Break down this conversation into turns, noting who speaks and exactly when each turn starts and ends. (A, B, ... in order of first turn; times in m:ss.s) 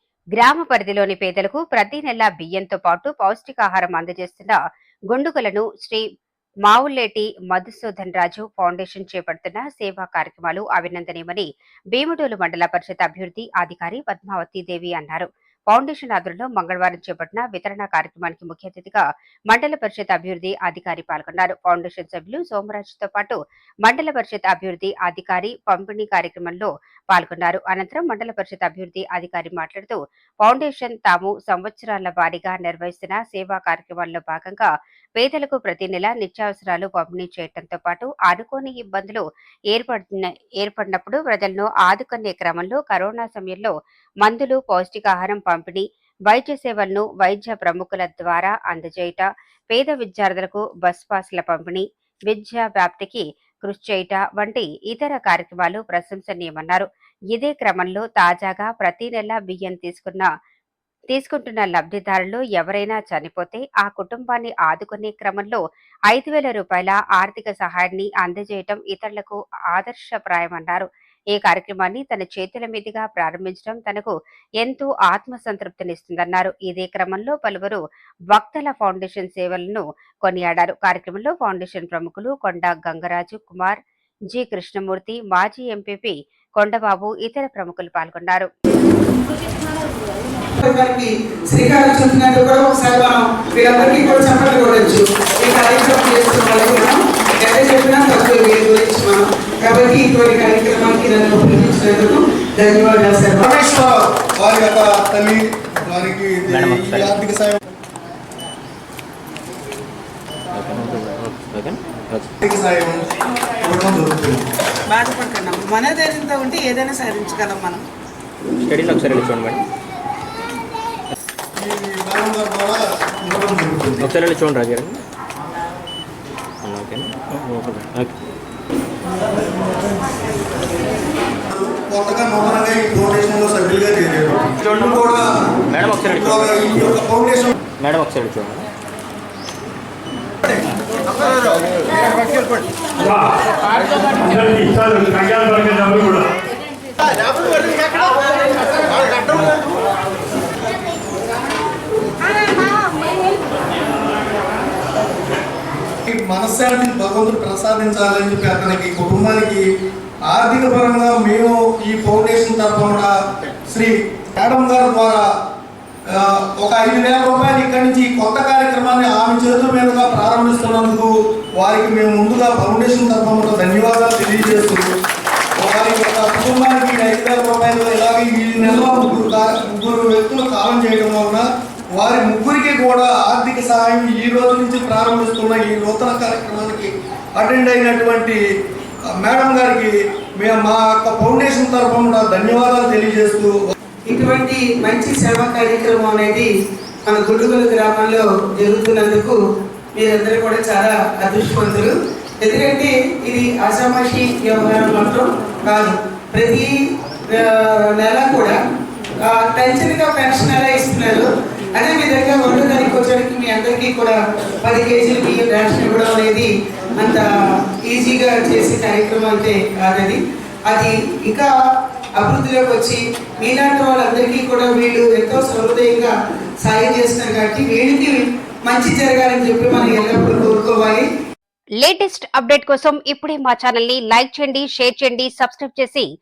0:00.4-0:04.6 A
0:05.1-0:06.0 A
0:06.7-1:00.3 A
1:01.1-1:17.8 A
1:18.3-1:23.8 A
1:24.3-1:28.5 A
1:30.6-1:43.5 B
1:43.4-1:47.6 C
1:46.5-1:47.2 D
1:50.5-1:52.3 D
1:52.4-1:53.1 C
1:53.6-1:54.5 C
1:54.9-1:57.8 B
1:58.6-1:59.6 D
2:01.6-2:04.1 C
2:04.0-2:05.0 D
2:06.6-2:08.2 D
2:11.5-2:15.2 C
2:15.7-2:16.8 D
2:16.0-2:17.5 C
2:17.8-2:18.7 D
2:23.0-2:23.4 E
2:24.0-2:26.3 E
2:36.1-2:39.6 C
2:40.3-2:43.1 C
2:43.7-2:45.2 C
2:46.1-2:54.9 C
2:55.6-3:08.4 C
3:09.1-3:13.6 C
3:14.1-3:16.5 B
3:17.1-3:19.4 B
3:20.0-3:26.7 B
3:27.3-3:28.6 B
3:29.2-3:37.2 B
3:37.9-3:41.5 B
3:42.2-3:51.0 B
3:51.8-3:56.1 A